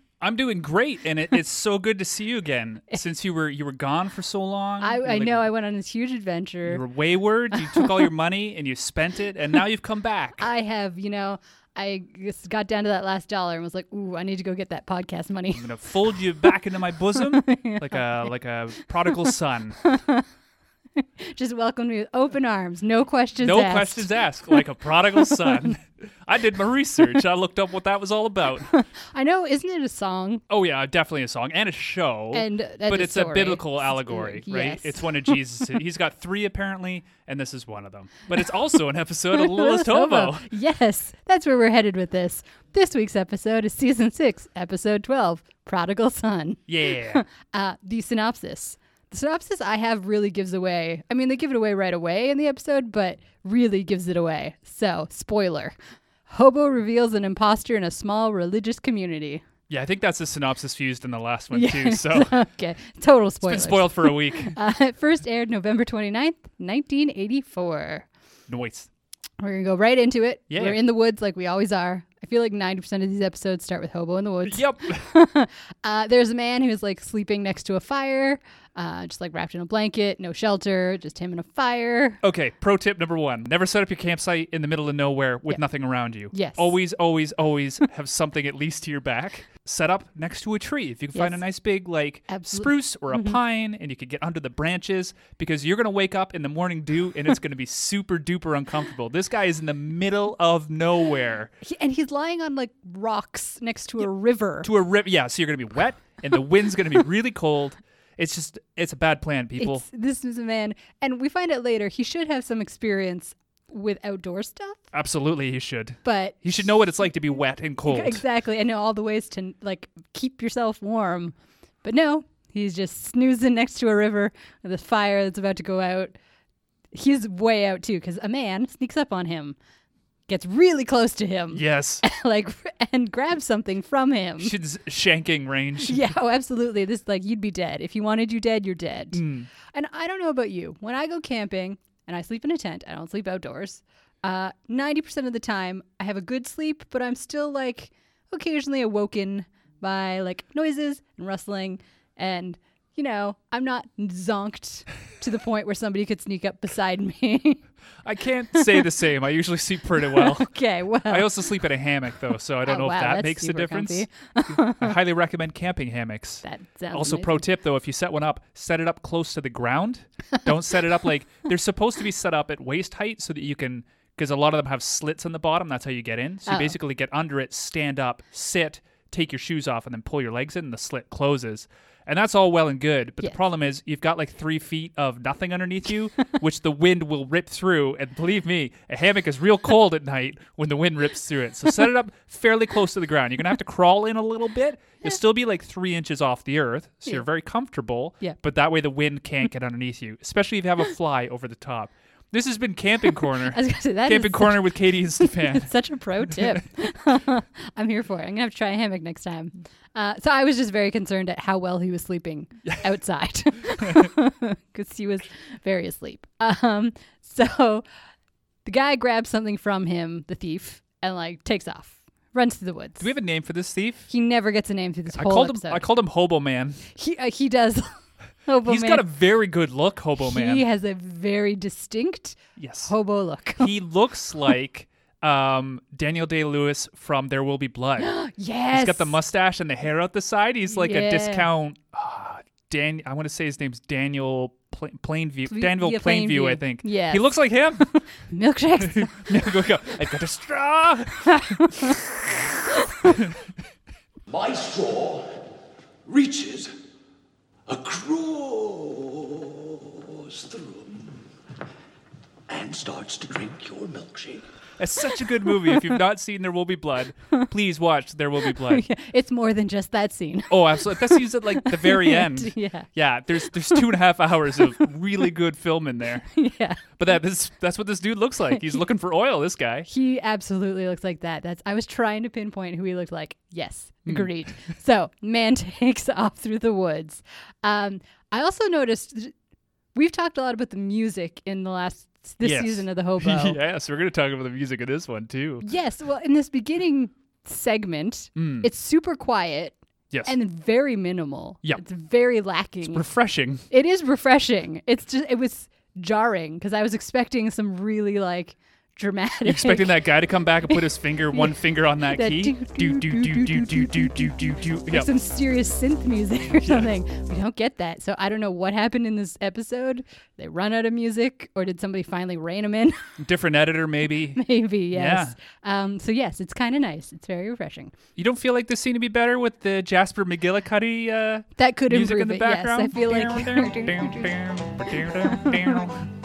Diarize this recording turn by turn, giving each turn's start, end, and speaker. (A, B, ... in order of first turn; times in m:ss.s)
0:00.2-0:05.5 A
0:04.8-0:06.8 B
0:06.6-0:10.5 A
0:07.5-0:08.0 B
0:10.4-0:15.7 B
0:15.5-0:19.8 A
0:17.2-0:18.0 B
0:19.8-0:20.2 B
0:21.0-0:24.6 B
0:23.4-0:28.7 A
0:28.7-0:30.4 B
0:30.5-0:40.5 A
0:32.3-0:35.4 B
0:39.3-0:55.7 B
0:46.7-0:47.2 A
0:56.3-0:59.4 B
0:59.7-1:02.3 A
1:01.5-1:08.1 B
1:03.4-1:04.5 A
1:08.5-1:08.9 A
1:09.4-1:22.2 B
1:10.5-1:10.8 A
1:14.4-1:15.0 A
1:22.2-1:41.5 A
1:26.3-1:26.7 B
1:32.3-1:33.4 B
1:41.6-1:44.7 B
1:44.6-1:49.8 A
1:49.6-1:54.8 B
1:54.9-1:58.2 A
1:56.0-1:56.4 B
1:57.8-2:06.1 B
2:06.9-2:09.6 B
2:10.3-2:14.5 B
2:11.5-2:12.0 A
2:14.4-2:16.0 A
2:15.8-2:37.6 B
2:19.1-2:19.5 A
2:38.0-2:40.5 A
2:38.6-2:38.9 B
2:40.0-2:41.4 B
2:41.1-3:26.6 A
2:42.6-2:45.0 B
2:46.4-2:47.4 B
2:56.5-2:56.7 B
3:23.4-3:37.8 B
3:33.8-3:34.1 A
3:38.6-3:43.1 B
3:43.0-3:44.1 A
3:44.1-3:45.8 B
3:45.1-3:46.8 A
3:46.9-3:47.9 B
3:48.4-3:49.0 B
3:48.6-3:50.6 A
3:50.2-3:53.7 B
3:52.6-3:52.9 A
3:53.6-3:58.1 A
3:58.0-3:59.2 B
3:58.7-4:07.8 A
4:00.7-4:01.5 B
4:05.5-4:09.3 B
4:08.8-4:12.2 A
4:11.5-4:11.9 B
4:12.8-4:13.2 B
4:13.0-4:13.4 A
4:14.3-4:15.4 C
4:16.0-4:16.7 C
4:17.6-4:21.2 C
4:22.5-4:24.4 C
4:24.8-4:28.8 A
4:28.6-4:32.9 B
4:30.5-4:36.3 A
4:36.3-4:36.8 B
4:37.0-4:39.9 A
4:39.9-4:49.3 B
4:49.9-4:53.6 B
4:52.4-4:55.6 A
4:55.6-5:03.0 B
4:58.4-4:58.7 A
5:02.8-5:03.6 A
5:03.7-5:10.1 B
5:09.4-5:15.1 A
5:10.7-5:14.3 B
5:14.9-5:23.2 B
5:16.6-5:16.9 A
5:23.2-5:25.3 A
5:24.3-5:27.9 B
5:28.2-5:36.1 A
5:31.6-5:35.8 B